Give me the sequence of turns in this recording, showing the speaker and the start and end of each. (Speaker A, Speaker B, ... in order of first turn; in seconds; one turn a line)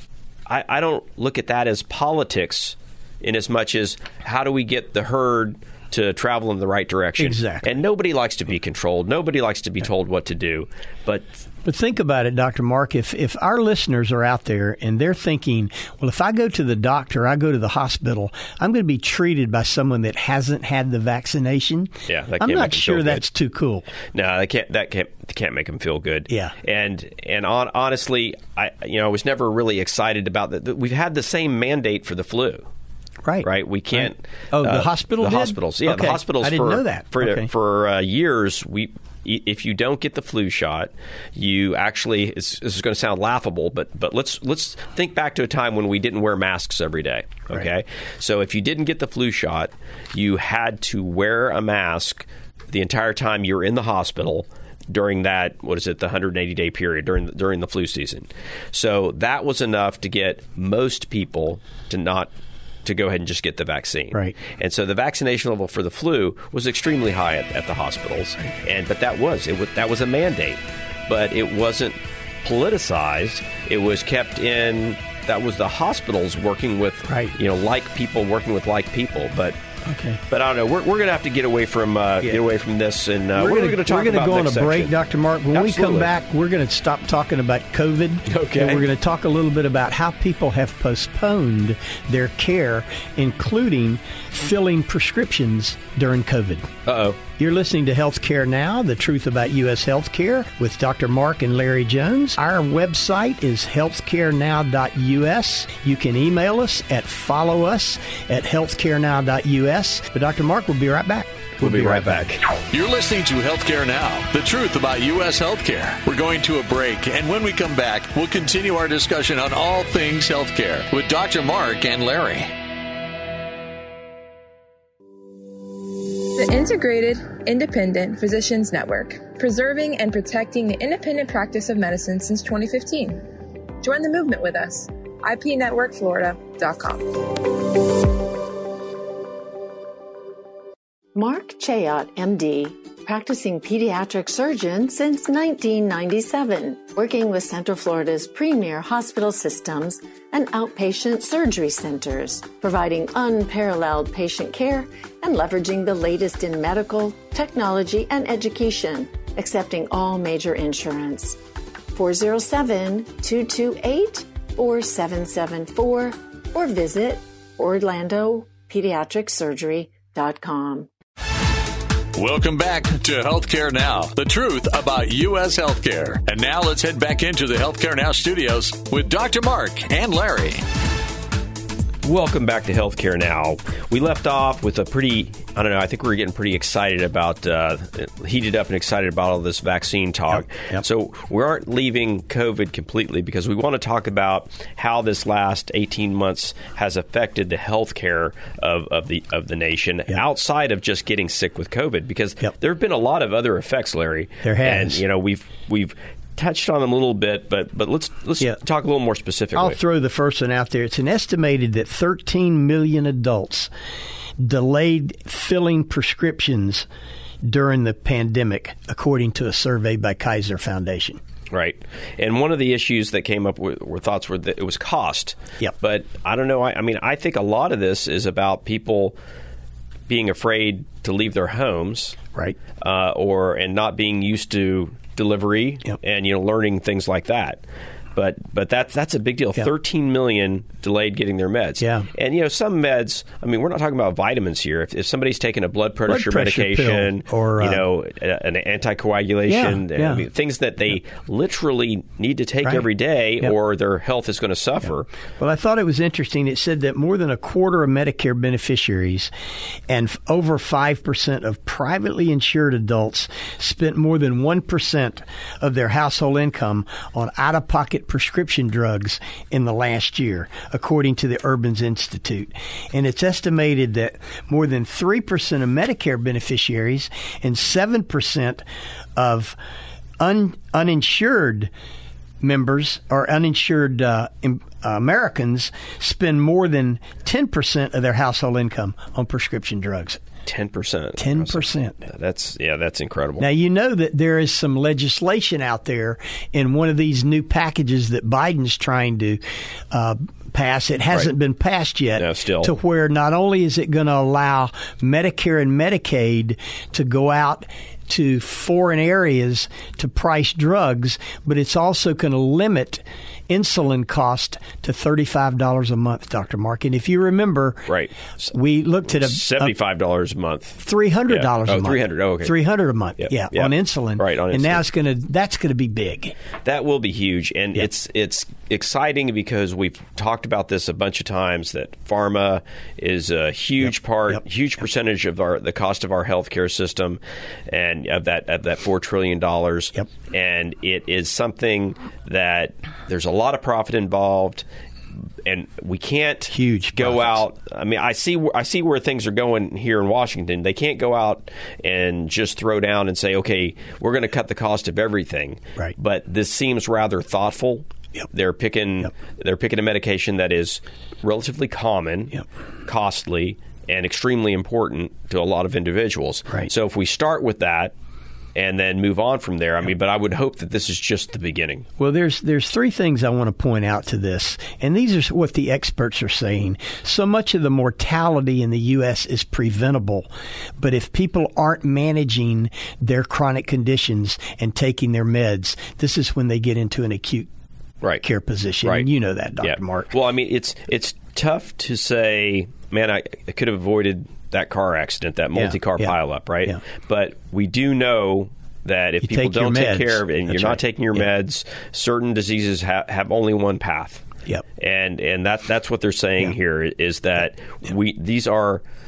Speaker A: 0.5-11.3
Speaker B: 7.2-7.7
Speaker B: 11.7-23.9
Speaker A: 22.1-23.2
Speaker A: 24.1-32.7
Speaker B: 26.3-26.5
Speaker B: 33.2-37.5
Speaker A: 33.4-62.3
Speaker A: 62.9-79.6
Speaker B: 77.1-77.3
Speaker B: 79.8-80.2
Speaker A: 80.3-85.0
Speaker B: 83.4-96.7
Speaker A: 85.5-86.1
Speaker A: 88.3-88.9
Speaker A: 96.9-97.2
Speaker B: 97.4-112.4
Speaker A: 111.6-112.4
Speaker C: 112.7-122.5
Speaker D: 126.2-133.2
Speaker D: 133.8-137.6
Speaker E: 141.2-161.4
Speaker E: 161.9-170.9
Speaker C: 172.2-180.6
Speaker A: 182.0-209.8
Speaker B: 204.4-205.0
Speaker B: 209.6-213.7
Speaker B: 214.4-216.9
Speaker B: 217.4-221.2
Speaker A: 221.5-229.2
Speaker A: 230.1-232.2
Speaker A: 232.8-237.6
Speaker A: 238.2-255.1
Speaker B: 241.8-242.1
Speaker B: 246.1-247.8
Speaker B: 249.5-250.2
Speaker B: 255.4-259.3
Speaker B: 259.9-278.6
Speaker B: 279.2-279.6
Speaker B: 280.2-281.7
Speaker B: 282.4-290.2
Speaker A: 290.4-293.5
Speaker B: 291.2-292.1
Speaker B: 293.4-299.4
Speaker B: 299.9-317.9
Speaker A: 302.2-302.8
Speaker A: 317.9-318.5
Speaker B: 318.5-319.8
Speaker A: 319.1-322.6
Speaker B: 320.8-326.4
Speaker A: 323.2-324.8
Speaker A: 326.6-344.6
Speaker A: 345.4-367.9
Speaker B: 346.5-347.4
Speaker A: 368.6-371.9
Speaker B: 372.0-380.3
Speaker B: 380.8-387.5
Speaker B: 388.2-390.1
Speaker A: 388.8-389.1
Speaker A: 389.6-408.8
Speaker B: 395.6-396.1
Speaker B: 399.2-400.8